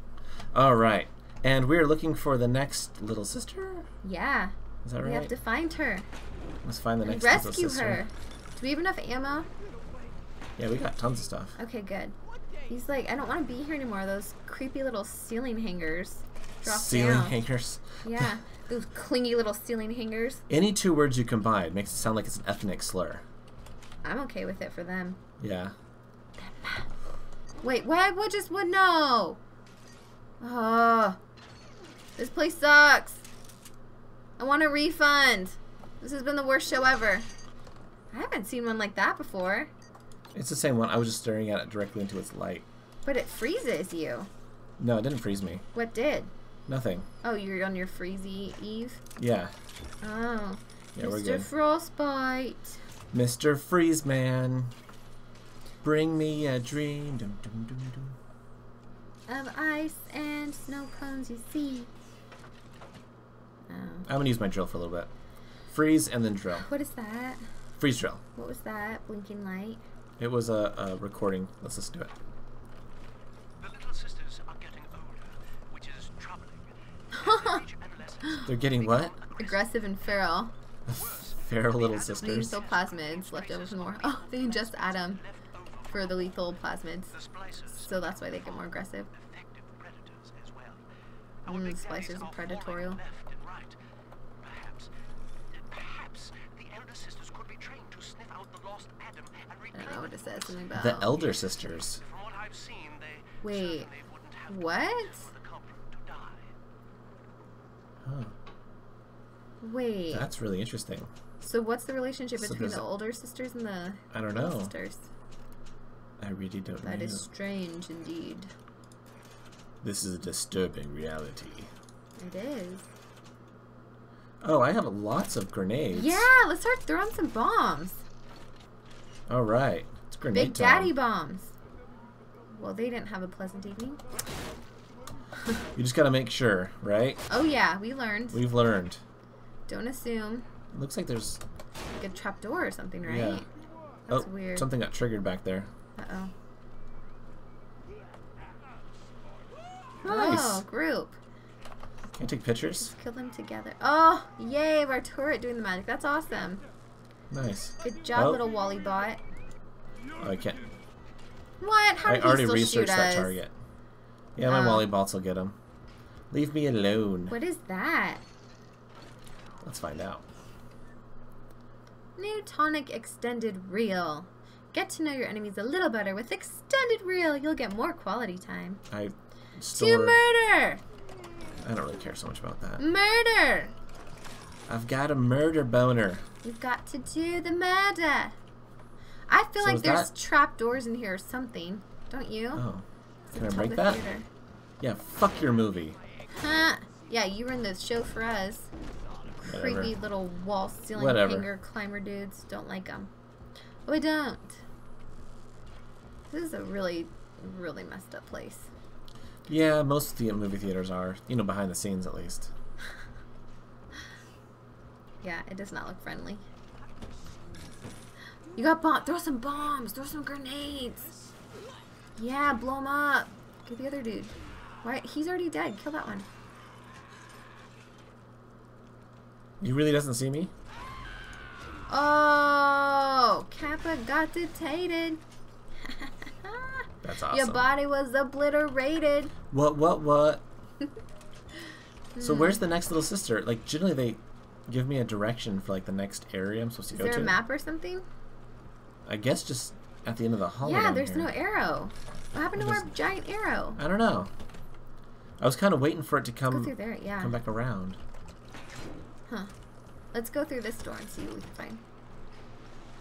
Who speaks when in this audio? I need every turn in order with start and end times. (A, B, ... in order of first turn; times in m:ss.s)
0:00.5-0:03.9 A
0:04.0-0:06.1 B
0:04.8-0:05.3 A
0:06.6-0:08.0 A
0:07.0-0:09.5 B
0:10.6-0:11.6 A
0:11.6-0:12.2 B
0:12.7-0:17.4 B
0:16.6-0:18.3 A
0:18.0-0:20.4 B
0:20.5-0:23.2 A
0:24.0-0:25.2 B
0:25.4-0:25.7 A
0:26.4-0:26.9 B
0:27.6-0:29.4 B
0:30.4-0:31.2 B
0:32.2-0:33.2 B
0:34.4-0:37.3 B
0:38.1-0:39.7 B
0:40.3-0:42.7 A
0:43.0-0:44.3 B
0:44.8-0:45.6 A
0:45.7-0:46.3 B
0:46.7-0:47.1 A
0:47.2-0:49.0 B
0:49.2-0:49.5 A
0:50.0-0:52.8 B
0:51.0-0:51.5 A
0:53.1-0:54.7 A
0:55.8-0:58.2 A
0:59.3-1:01.9 B
1:03.7-1:04.1 B
1:04.1-1:05.1 A
1:05.7-1:06.7 A
1:06.5-1:07.4 B
1:07.8-1:08.2 A
1:08.3-1:09.8 B
1:10.2-1:12.1 A
1:13.7-1:16.6 C
1:17.1-1:17.7 B
1:17.7-1:18.2 C
1:18.2-1:18.5 B
1:18.3-1:19.2 A
1:19.3-1:20.5 B
1:20.9-1:22.6 A
1:22.2-1:25.2 B
1:25.9-1:29.1 B
1:29.8-1:30.6 C
1:31.5-1:33.0 B
1:33.0-1:33.6 C
1:35.7-1:37.2 A
1:36.6-1:39.7 C
1:39.7-1:41.2 B
1:40.7-1:42.0 A
1:42.1-1:43.4 C
1:43.4-1:43.9 B
1:44.5-1:45.3 B
1:45.6-1:46.2 C
1:48.0-1:48.3 A
1:49.6-1:50.3 B
1:50.1-1:51.1 A
1:51.4-1:55.1 B
1:52.4-1:52.9 A
1:54.1-1:54.7 A
1:56.2-1:57.3 A
1:56.8-1:58.5 B
1:59.8-2:01.7 A
2:02.2-2:02.9 B
2:04.4-2:06.3 A
2:05.9-2:08.0 B
2:09.3-2:10.9 A
2:10.3-2:11.5 B
2:12.5-2:14.0 B
2:15.8-2:17.2 A
2:17.3-2:18.4 B
2:18.3-2:19.0 A
2:19.7-2:20.5 B
2:20.7-2:21.4 A
2:22.0-2:23.5 B
2:23.0-2:23.4 A
2:24.1-2:24.7 B
2:24.1-2:25.7 A
2:26.0-2:26.3 B
2:30.0-2:30.6 A
2:30.0-2:31.2 B
2:32.2-2:32.9 A
2:32.8-2:36.6 B
2:37.3-2:38.4 A
2:37.8-2:39.2 B
2:40.2-2:40.6 A
2:41.6-2:43.4 B
2:42.0-2:43.5 A
2:44.4-2:45.6 A
2:44.4-2:44.9 B
2:46.3-2:47.4 A
2:47.3-2:48.2 B
2:49.6-2:50.2 A
2:52.2-2:58.8 B
2:58.9-3:00.2 A
2:59.8-3:00.8 B
3:01.6-3:02.8 A
3:02.8-3:03.7 B
3:04.7-3:06.2 A
3:06.4-3:08.3 B
3:09.3-3:12.6 B
3:09.6-3:10.1 A
3:12.6-3:14.0 A
3:13.3-3:14.3 B
3:14.8-3:16.0 A
3:16.3-3:18.7 B
3:19.4-3:23.1 B
3:19.4-3:19.9 A
3:20.9-3:21.5 A
3:23.9-3:24.6 B
3:26.3-3:28.7 B
3:29.5-3:32.5 A
3:35.2-3:36.4 B
3:38.6-3:41.1 B
3:42.2-3:46.2 B
3:49.6-3:50.5 A
3:51.9-3:55.2 B
3:55.8-3:59.3 B
3:57.0-3:57.7 A
3:59.5-4:00.4 A
4:02.2-4:02.6 B
4:02.2-4:07.4 A
4:06.9-4:08.0 B
4:09.0-4:11.3 A
4:10.6-4:13.8 B
4:12.5-4:12.9 A
4:13.8-4:14.3 A
4:15.4-4:18.0 A
4:16.5-4:17.3 B
4:20.1-4:21.8 B